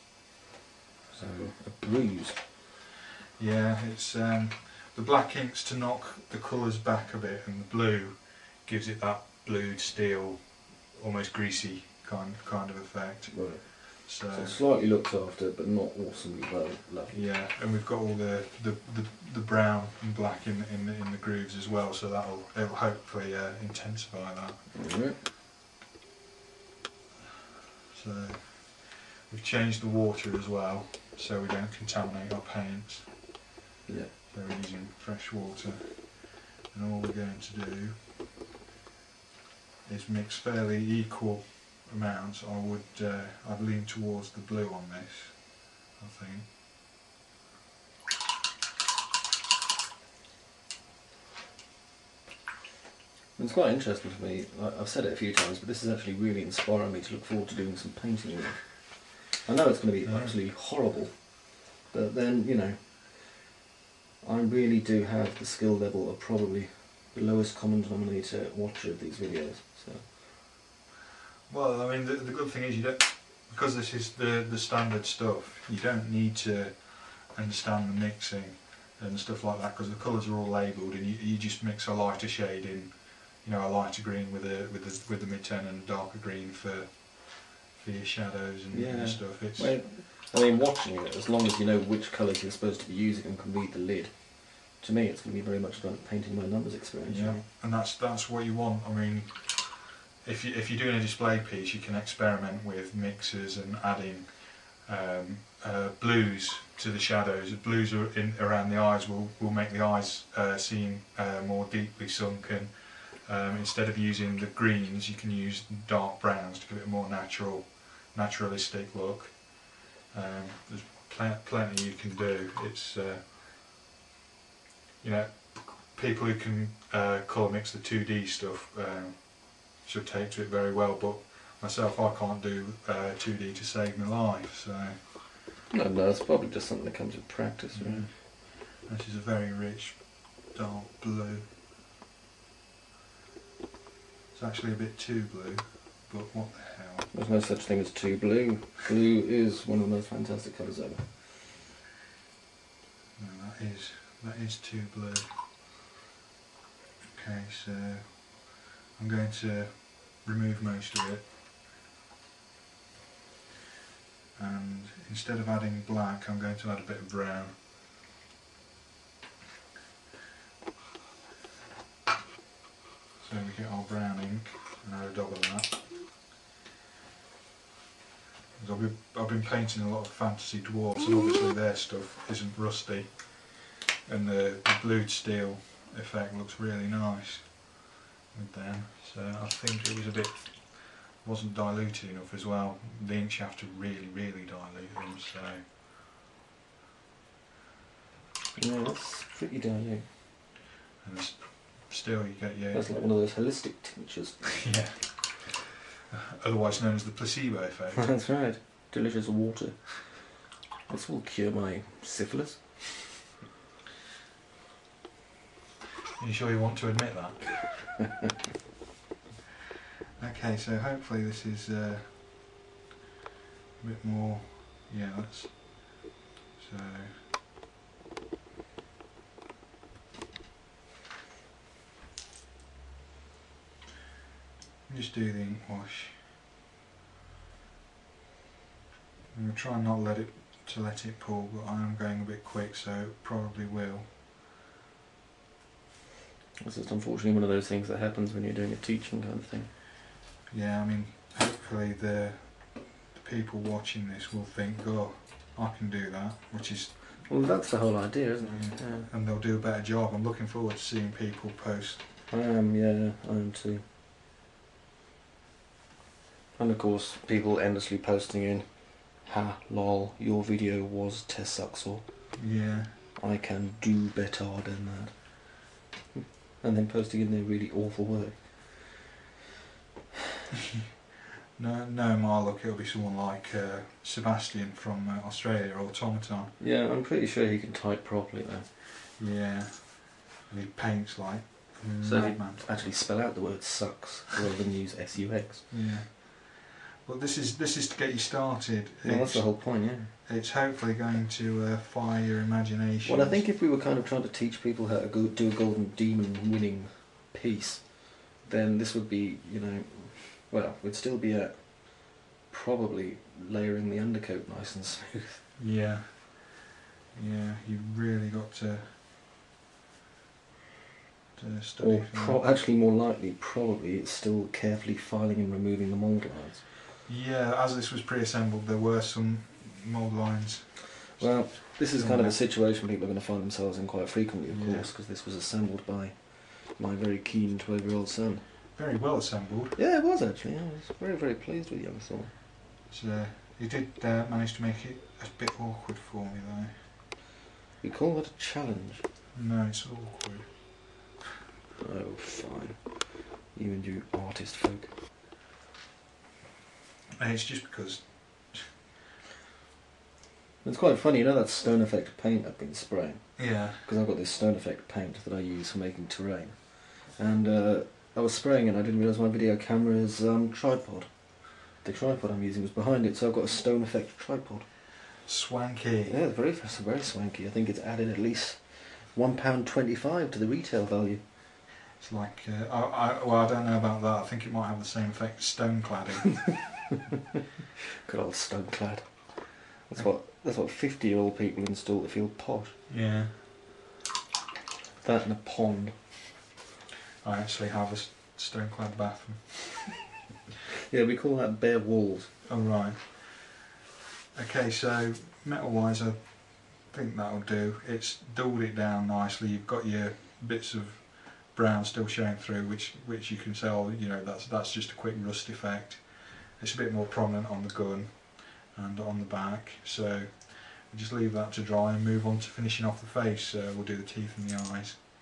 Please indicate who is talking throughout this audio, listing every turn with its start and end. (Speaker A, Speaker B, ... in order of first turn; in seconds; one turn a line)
Speaker A: 1.1-2.4
Speaker B: 3.4-14.6
Speaker A: 13.3-17.2
Speaker B: 17.1-24.8
Speaker A: 24.8-25.2
Speaker B: 27.9-33.4
Speaker A: 33.9-34.2
Speaker B: 34.3-38.0
Speaker B: 39.9-46.5
Speaker A: 53.4-63.5
Speaker B: 60.0-60.4
Speaker A: 64.2-70.1
Speaker B: 71.5-89.8
Speaker A: 88.7-97.5
Speaker B: 97.1-123.4
Speaker B: 125.0-135.3
Speaker A: 135.7-138.1
Speaker B: 137.7-141.5
Speaker B: 144.3-147.1
Speaker A: 147.1-151.1
Speaker B: 153.2-155.4
Speaker B: 157.1-161.3
Speaker B: 164.4-167.6
Speaker B: 173.2-175.9
Speaker B: 178.6-195.7
Speaker A: 198.6-200.1
Speaker B: 201.0-203.2
Speaker A: 202.7-204.6
Speaker B: 204.6-205.6
Speaker B: 206.4-208.3
Speaker A: 208.0-210.3
Speaker A: 210.9-213.2
Speaker B: 216.2-217.9
Speaker B: 220.2-222.6
Speaker B: 223.8-227.3
Speaker B: 234.9-236.3
Speaker B: 239.3-244.1
Speaker A: 246.6-249.7
Speaker B: 250.5-257.7
Speaker A: 257.2-259.1
Speaker B: 258.4-262.1
Speaker A: 262.3-263.9
Speaker A: 266.6-272.4
Speaker B: 272.4-273.0
Speaker A: 273.2-279.0
Speaker B: 281.6-286.6
Speaker A: 286.6-288.7
Speaker B: 289.2-292.9
Speaker A: 292.0-295.7
Speaker B: 295.7-303.4
Speaker A: 299.0-300.1
Speaker A: 303.1-315.4
Speaker B: 315.6-319.0
Speaker B: 321.4-322.5
Speaker A: 321.8-326.6
Speaker B: 327.1-332.4
Speaker A: 331.2-338.5
Speaker B: 334.5-334.9
Speaker B: 338.7-339.8
Speaker A: 339.8-342.3
Speaker B: 342.9-346.9
Speaker A: 347.8-349.0
Speaker B: 349.3-351.0
Speaker A: 351.8-354.9
Speaker B: 357.2-358.8
Speaker A: 360.6-374.7
Speaker B: 363.4-363.8
Speaker B: 375.2-376.2
Speaker A: 376.1-381.2
Speaker B: 382.0-386.9
Speaker A: 388.1-392.8
Speaker B: 392.9-393.5
Speaker A: 395.0-396.2
Speaker B: 397.2-400.2
Speaker A: 400.9-402.4
Speaker B: 402.5-403.7
Speaker B: 404.3-425.0